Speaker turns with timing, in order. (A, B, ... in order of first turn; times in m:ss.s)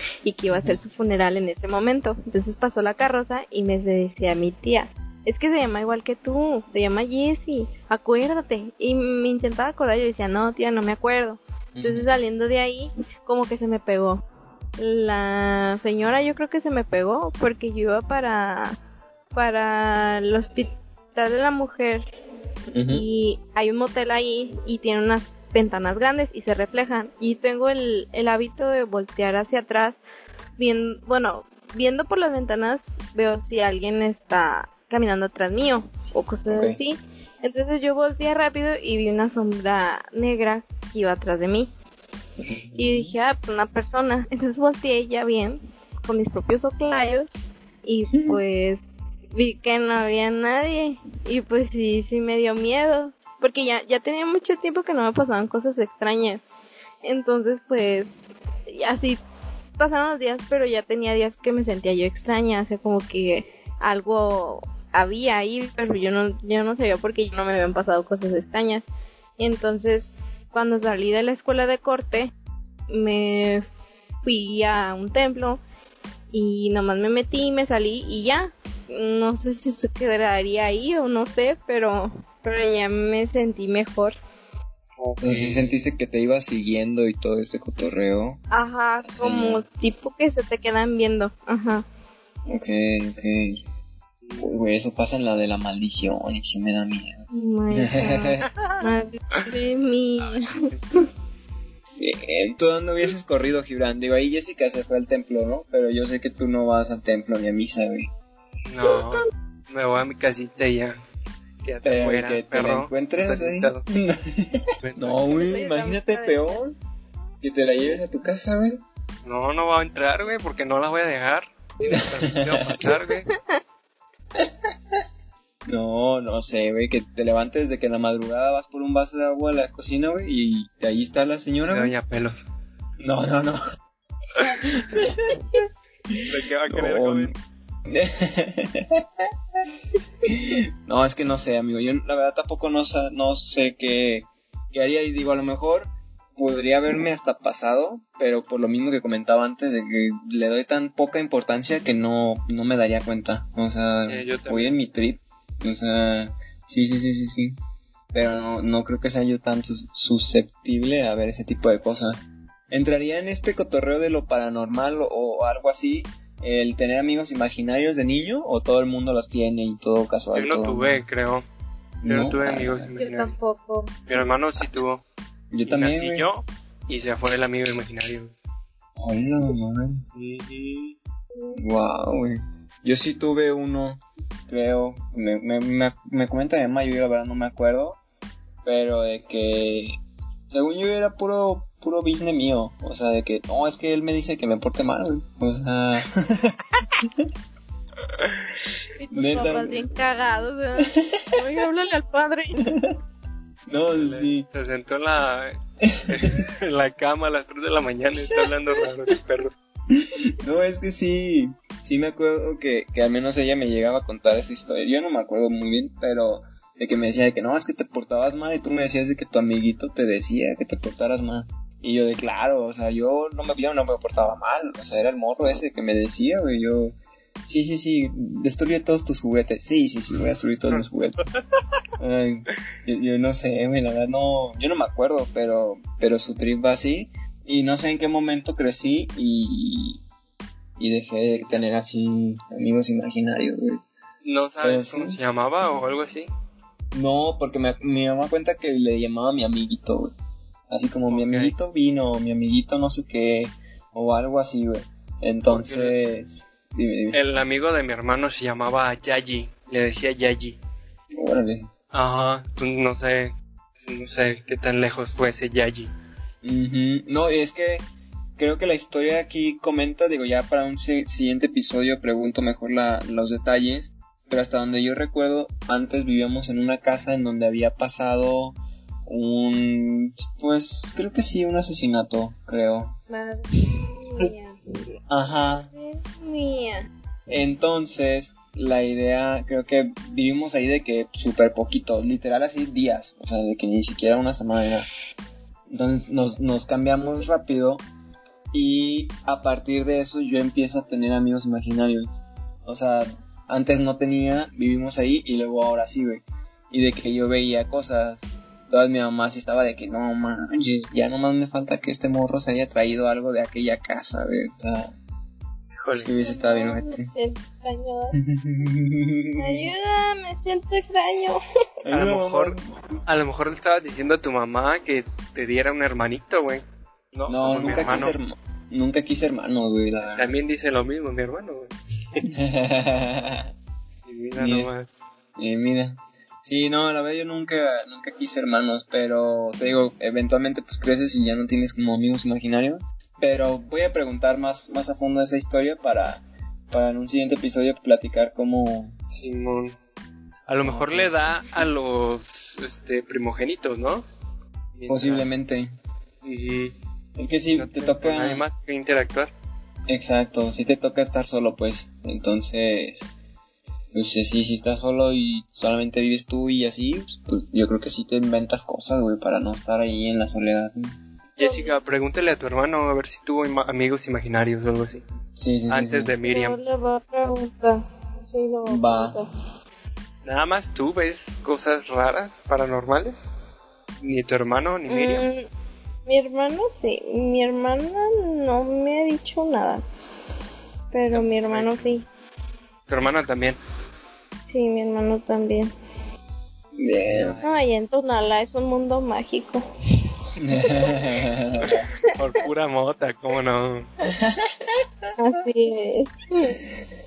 0:00.2-0:14.2 A
0:00.5-0:00.8 B
0:11.8-0:12.1 B
0:14.8-0:18.8 A
0:19.3-0:22.0 A
0:22.7-0:23.0 B
0:22.9-0:30.0 A
0:30.6-0:41.7 A
0:36.5-0:36.8 B
0:42.4-0:43.2 B
0:42.7-0:47.3 A
0:47.8-0:48.8 A
0:48.1-0:48.4 B
0:49.3-0:56.4 A
0:57.0-0:58.1 A
0:58.7-0:59.2 A
0:59.8-1:08.8 A
1:09.4-1:12.3 A
1:12.9-1:13.6 A
1:14.2-1:15.6 A
1:16.3-1:24.2 A
1:25.0-1:25.8 C
1:25.2-1:28.4 B
1:28.5-1:31.8 A
1:29.0-1:29.6 B
1:32.5-1:33.6 B
1:34.2-1:34.6 C
1:34.4-1:38.5 B
1:37.3-1:40.7 A
1:38.5-1:38.8 C
1:40.2-1:40.8 C
1:42.0-1:48.1 B
1:48.7-1:51.0 C
1:51.6-1:53.8 C
1:51.8-1:56.8 B
1:54.8-1:55.4 C
1:55.2-1:56.6 A
1:57.4-1:58.8 B
1:59.2-2:03.3 C
2:01.9-2:02.9 B
2:04.4-2:05.0 B
2:05.7-2:11.9 B
2:11.7-2:12.4 C
2:13.0-2:13.6 B
2:14.6-2:17.3 B
2:16.2-2:17.3 C
2:17.9-2:19.3 B
2:20.2-2:37.6 B
2:34.1-2:34.8 C
2:38.1-2:51.0 B
2:50.4-2:51.4 C
2:52.0-2:52.9 B
2:52.1-2:53.3 C
2:53.0-2:54.0 A
2:54.1-2:55.0 C
2:55.5-2:56.3 B
2:55.6-2:58.3 C
2:59.0-3:00.0 B
3:00.2-3:01.0 C
3:01.6-3:08.0 B
3:08.6-3:17.3 B
3:19.0-3:22.6 A
3:19.1-3:19.9 B
3:20.9-3:21.3 B
3:22.6-3:23.0 B
3:23.7-3:24.5 B
3:23.9-3:25.6 C
3:25.8-3:26.4 B
3:26.1-3:29.5 C
3:29.9-3:51.2 B
3:52.0-4:00.0 B
4:00.8-4:03.8 B
4:04.2-4:06.3 C
4:04.6-4:05.2 B
4:06.9-4:10.1 B
4:10.7-4:17.2 B
4:11.1-4:11.5 C
4:15.5-4:15.9 C
4:17.1-4:20.6 C
4:21.1-4:21.7 B
4:21.9-4:25.9 C
4:26.4-4:43.0 B
4:43.1-4:44.6 A
4:45.1-4:45.7 B
4:45.7-4:46.9 A
4:47.3-4:54.9 B
4:55.7-4:57.8 B
4:58.5-5:02.1 B
5:02.7-5:15.0 B
5:15.7-5:16.1 C
5:15.9-5:17.1 B
5:16.2-5:18.2 A
5:18.2-5:19.7 B
5:19.4-5:21.4 A
5:21.8-5:22.6 B
5:21.9-5:28.2 C
5:27.3-5:30.4 B
5:27.7-5:27.9 A
5:30.1-5:31.7 C
5:32.2-5:33.5 B
5:34.1-5:34.9 C
5:34.4-5:34.7 B
5:35.4-5:49.0 B
5:49.1-5:49.8 C
5:50.5-5:54.1 C
5:50.6-5:51.2 B
5:54.8-5:55.3 C
5:54.9-5:55.7 B
5:56.2-5:56.8 C
5:57.2-5:58.4 B
5:57.6-5:59.3 C
5:59.9-6:03.1 B
6:03.9-6:11.0 B
6:11.4-6:15.0 C
6:11.4-6:11.7 A
6:15.4-6:16.1 B
6:15.7-6:16.6 C
6:16.3-6:19.3 A
6:18.7-6:19.2 B
6:20.2-6:23.3 C
6:24.0-6:25.3 C
6:24.9-6:25.4 A
6:26.1-6:29.8 A
6:30.9-6:32.1 A
6:31.1-6:31.9 C
6:32.9-6:33.6 C
6:34.5-6:35.7 A
6:36.8-6:37.4 B
6:37.1-6:37.6 C
6:37.4-6:39.6 A
6:40.4-6:41.9 B
6:40.7-6:40.9 A
6:41.6-6:43.9 C
6:44.2-6:44.8 B
6:45.2-6:46.6 A